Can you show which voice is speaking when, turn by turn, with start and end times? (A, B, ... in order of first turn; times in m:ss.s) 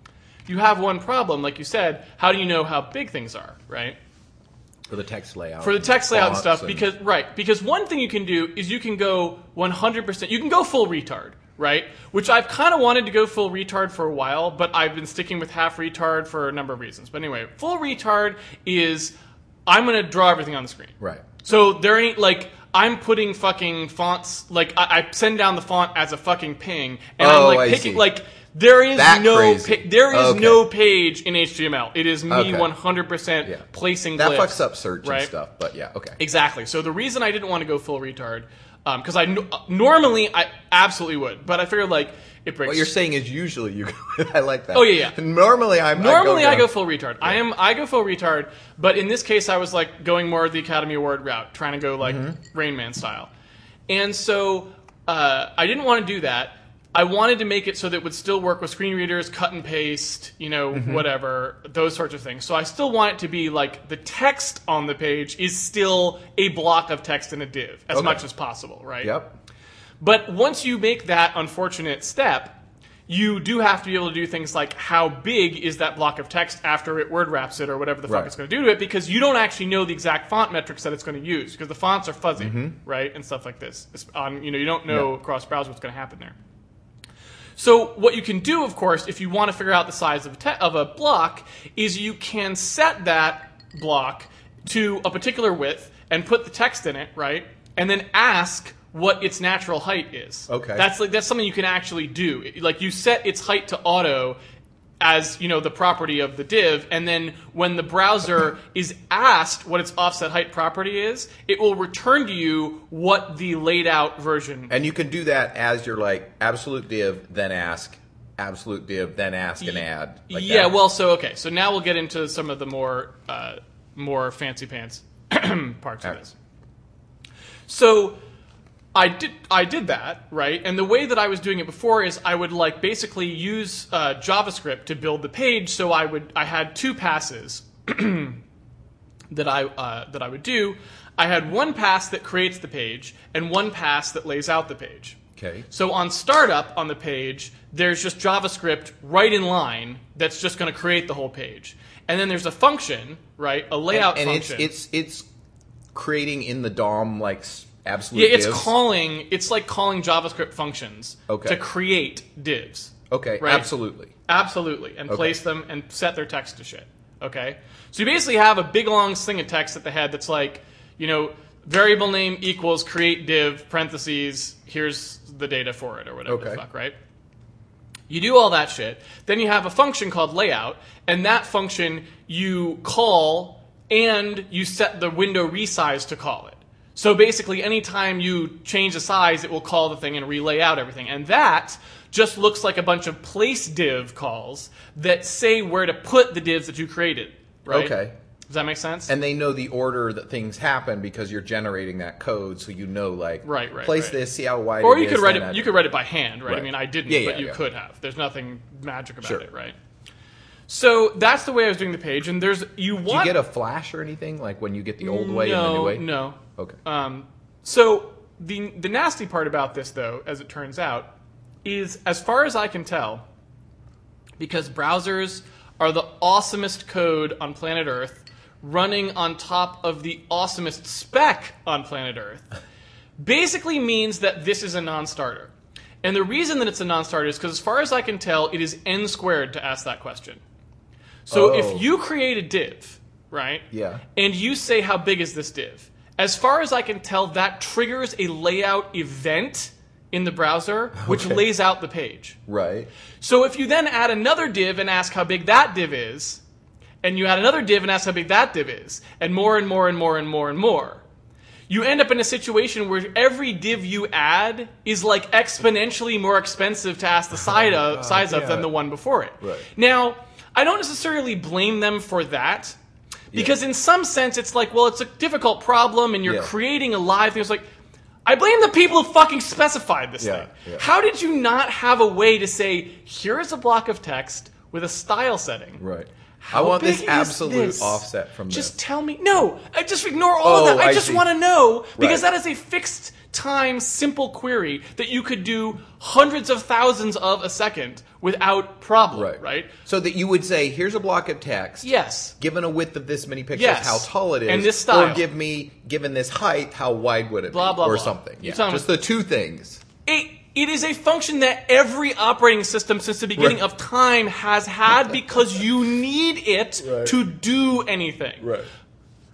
0:00.5-0:04.0 A
0:04.9-0:06.9 B
0:05.6-0:19.1 A
0:19.7-0:35.3 A
0:21.0-0:21.2 B
0:27.2-0:28.1 B
0:29.0-0:30.6 B
0:32.3-0:32.7 B
0:33.4-0:36.2 B
0:36.2-0:42.9 A
0:42.6-0:47.4 B
0:44.7-0:45.2 A
0:46.0-0:53.3 A
0:52.0-0:52.4 B
0:53.9-1:09.1 A
1:00.7-1:01.1 B
1:07.9-1:08.2 B
1:09.0-1:09.4 B
1:10.0-1:26.4 A
1:18.1-1:18.3 B
1:22.4-1:22.8 B
1:27.6-1:44.4 A
1:40.5-1:40.9 B
1:45.0-1:54.7 A
1:54.7-2:00.7 B
1:59.6-2:06.3 A
2:07.7-2:08.2 A
2:08.9-2:18.4 A
2:19.3-2:25.2 A
2:25.4-2:25.7 B
2:25.7-2:34.7 A
2:33.9-2:35.3 B
2:36.0-2:38.7 B
2:38.1-2:43.7 A
2:41.3-2:41.6 B
2:43.1-2:44.1 B
2:44.3-2:57.0 A
2:45.1-2:45.4 B
2:56.3-2:56.6 B
2:58.1-3:18.0 A
3:17.7-3:18.1 B
3:18.5-3:19.1 A
3:19.1-3:25.8 B
3:23.4-3:24.2 A
3:24.8-3:29.8 A
3:26.5-3:27.6 B
3:30.7-3:33.4 A
3:33.1-3:36.0 B
3:35.0-3:41.1 A
3:41.6-3:43.2 A
3:44.4-3:52.4 A
3:53.2-3:55.5 A
3:56.0-4:00.4 A
4:01.3-4:01.9 B
4:01.3-4:12.4 A
4:03.7-4:04.0 B
4:11.0-4:11.4 B
4:12.5-4:12.9 B
4:13.2-4:16.4 A
4:17.0-4:21.0 A
4:21.7-4:32.8 A
4:27.5-4:28.7 B
4:29.4-4:29.7 B
4:33.3-4:37.7 A
4:36.3-4:36.5 B
4:38.3-4:45.8 A
4:40.2-4:40.9 B
4:45.8-4:48.7 B
4:46.4-4:59.7 A
4:50.4-4:51.3 B
4:52.0-4:52.2 B
4:59.1-5:09.8 B
5:01.8-5:02.4 A
5:03.6-5:05.2 A
5:07.5-5:08.9 A
5:10.0-5:18.5 A
5:16.8-5:17.2 B
5:18.4-5:18.7 B